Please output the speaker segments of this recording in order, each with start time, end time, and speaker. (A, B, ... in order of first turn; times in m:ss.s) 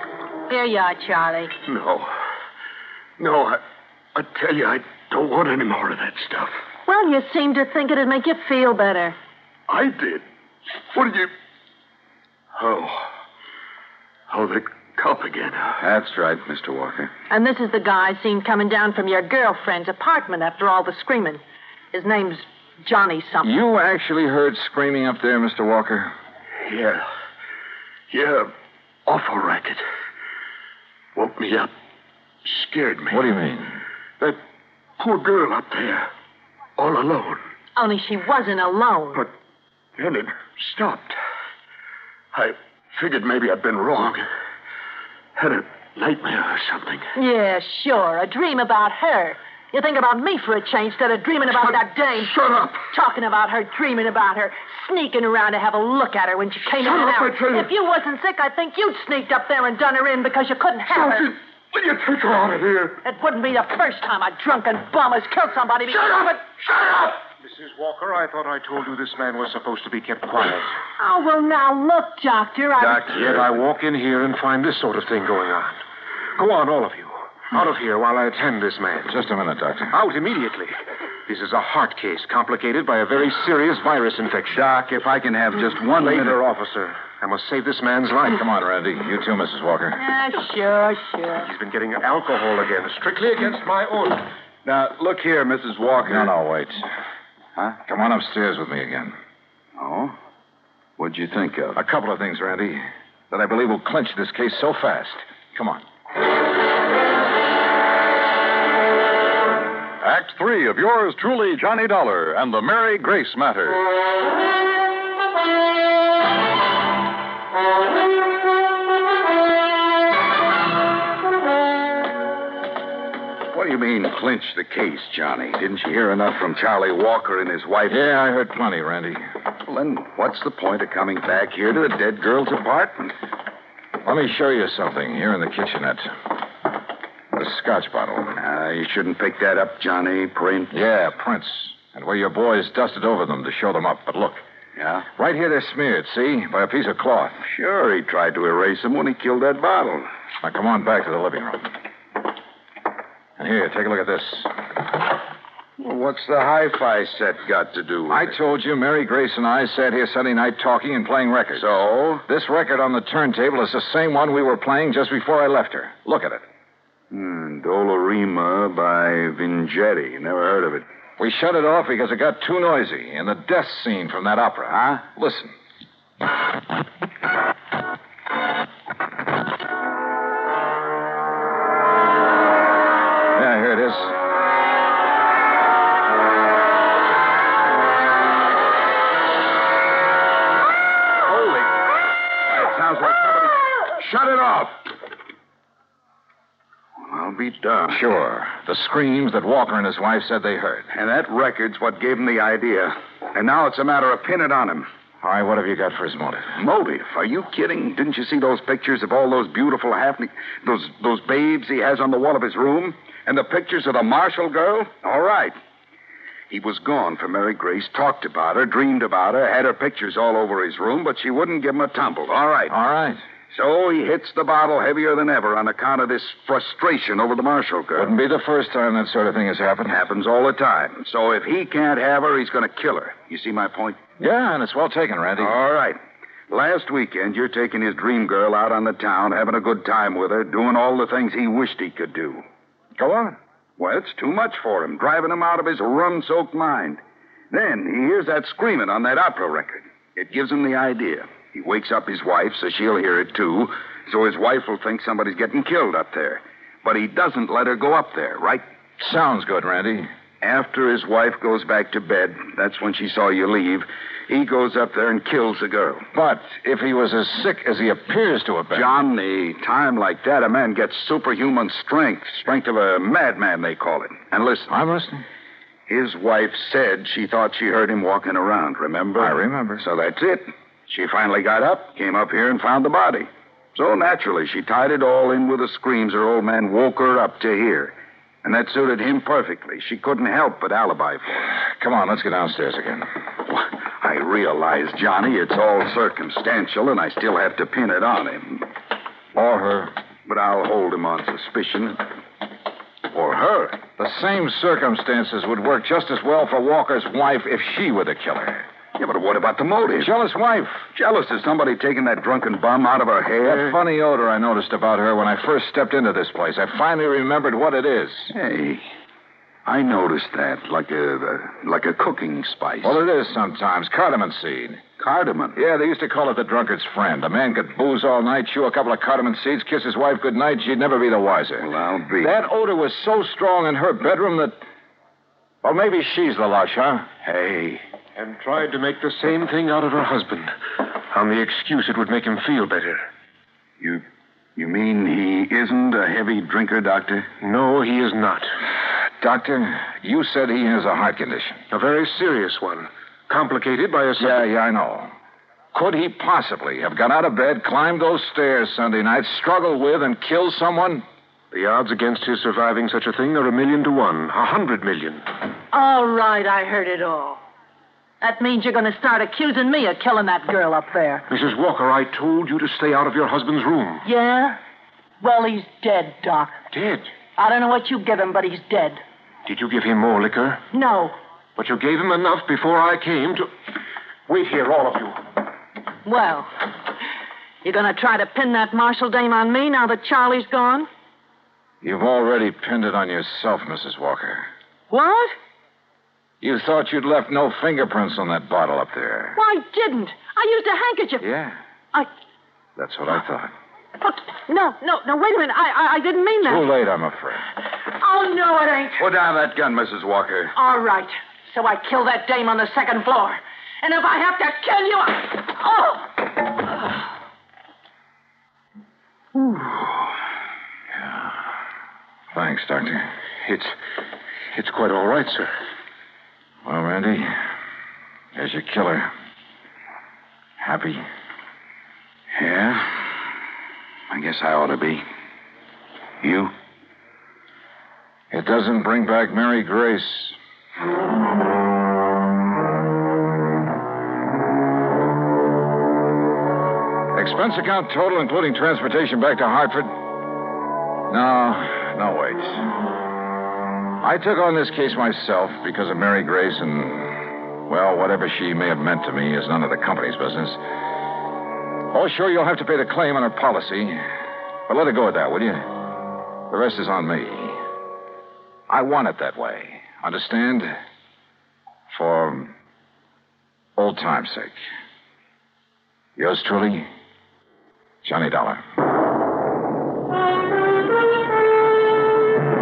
0:00.5-0:01.5 A
0:01.6-0:02.2 B
0:03.2-0:03.6 B
0:04.1-0:06.6 B
0:06.8-0:09.2 A
0:09.7-0:10.2 B
0:10.9-0:11.3 B
0:12.5-0:13.1 B
0:14.3-0:15.8 B
0:15.8-0:17.1 C
0:17.3-0:21.4 A
0:21.9-0:23.5 A
0:23.4-0:26.1 D
0:26.6-0:27.0 B
0:28.1-0:28.5 B
0:29.0-0:29.8 B
0:31.2-0:31.7 B
0:32.4-0:33.3 B
0:33.1-0:33.8 D
0:35.0-0:36.1 B
0:36.8-0:37.4 B
0:37.8-0:39.2 A
0:40.0-0:41.2 B
0:42.3-0:44.2 B
0:45.4-0:47.1 B
0:47.1-1:01.3 A
0:51.6-0:52.8 B
0:56.8-0:57.7 B
1:00.9-1:03.0 B
1:03.0-1:06.3 A
1:05.9-1:07.2 B
1:07.4-1:10.7 E
1:11.0-1:13.1 A
1:12.9-1:15.8 E
1:13.2-1:13.4 C
1:16.4-1:19.2 E
1:19.0-1:19.9 D
1:19.9-1:20.7 E
1:21.2-1:24.6 E
1:24.5-1:26.4 C
1:25.9-1:28.4 E
1:28.3-1:30.0 D
1:29.9-1:31.5 A
1:31.4-1:34.3 E
1:34.6-1:36.3 C
1:36.1-1:36.8 D
1:37.8-1:39.2 D
1:39.8-1:40.2 C
1:41.0-1:41.8 C
1:41.7-1:45.8 D
1:50.0-1:53.8 F
2:03.5-2:08.0 C
2:07.9-2:09.2 D
2:09.6-2:13.1 C
2:14.0-2:16.2 D
2:17.3-2:18.4 D
2:18.4-2:20.8 C
2:20.7-2:24.4 D
2:24.8-2:25.1 C
2:25.2-2:27.4 D
2:27.4-2:30.1 C
2:30.4-2:31.7 D
2:33.4-2:34.6 D
2:35.8-2:38.3 C
2:38.1-2:41.7 D
2:41.5-2:42.2 C
2:42.3-2:46.4 D
2:47.1-2:50.8 C
2:51.2-2:55.5 D
2:54.7-2:55.0 C
3:03.3-3:04.2 D
3:11.3-3:11.7 C
3:12.5-3:14.8 C
3:17.0-3:18.0 C
3:17.9-3:20.9 D
3:20.9-3:24.9 C
3:25.2-3:26.5 D
3:26.6-3:35.6 C
3:36.5-3:42.7 C
3:42.7-3:43.2 D
3:43.5-3:48.1 C
3:47.9-3:50.0 D
3:49.9-3:54.0 C
3:54.2-3:55.5 D
3:55.4-4:02.4 C
4:03.0-4:03.4 D
4:03.8-4:07.0 C
4:07.5-4:18.6 C
4:19.0-4:20.1 D
4:20.4-4:26.0 C
4:26.1-4:28.9 D
4:28.7-4:34.7 C
4:34.7-4:35.2 D
4:35.9-4:51.5 C
4:39.2-4:39.8 D
4:51.5-4:53.1 D
4:53.4-4:58.7 C
4:59.3-4:59.9 D
5:00.2-5:02.0 C
5:03.1-5:03.8 C
5:03.9-5:08.6 D
5:09.0-5:10.1 C
5:10.0-5:10.9 D
5:10.9-5:13.8 C
5:13.4-5:18.3 D
5:18.3-5:18.9 C
5:19.6-5:23.0 C
5:22.8-5:24.8 D
5:25.0-5:25.6 C
5:25.5-5:31.7 D
5:31.6-5:32.4 C
5:32.2-5:34.6 D
5:35.6-5:37.1 D
5:37.2-5:37.8 C
5:38.2-5:40.5 E
5:41.1-5:43.0 E
5:44.6-5:47.3 C
5:47.4-5:48.5 E
5:49.2-5:51.6 D
5:51.7-5:54.4 E
5:54.2-5:55.1 D
5:55.7-6:01.0 D
6:01.5-6:05.3 E
6:05.7-6:07.4 A
6:08.2-6:11.2 A
6:11.3-6:14.0 E
6:14.0-6:14.6 A
6:15.2-6:16.6 A
6:16.7-6:17.1 E
6:17.4-6:19.0 A
6:19.4-6:20.6 E
6:20.7-6:21.2 A
6:21.6-6:23.5 E
6:24.3-6:25.2 E
6:26.0-6:26.5 A
6:27.6-6:30.9 A
6:31.8-6:34.5 D
6:34.9-6:35.3 A
6:36.4-6:39.4 D
6:39.3-6:41.3 A
6:41.2-6:41.6 D
6:42.8-6:43.5 D
6:44.0-6:46.6 A
6:46.4-6:47.5 D
6:47.9-6:49.0 A
6:49.0-6:50.5 C
6:50.5-6:56.8 A
7:01.0-7:01.4 D
7:02.3-7:03.1 D
7:03.4-7:03.7 E
7:04.5-7:05.5 E
7:06.6-7:07.4 D
7:08.3-7:09.1 D
7:10.6-7:11.0 D
7:12.3-7:13.2 C
7:14.1-7:15.0 C
7:16.2-7:16.5 C
7:18.3-7:20.4 D
7:27.1-7:29.9 D
7:31.1-7:32.7 D
7:34.0-7:40.6 D
7:41.9-7:44.0 D
7:44.7-7:47.6 D
7:48.7-7:50.7 D
7:51.9-7:52.5 D
7:53.8-7:54.6 D
7:56.2-7:56.9 D
7:58.0-7:58.6 D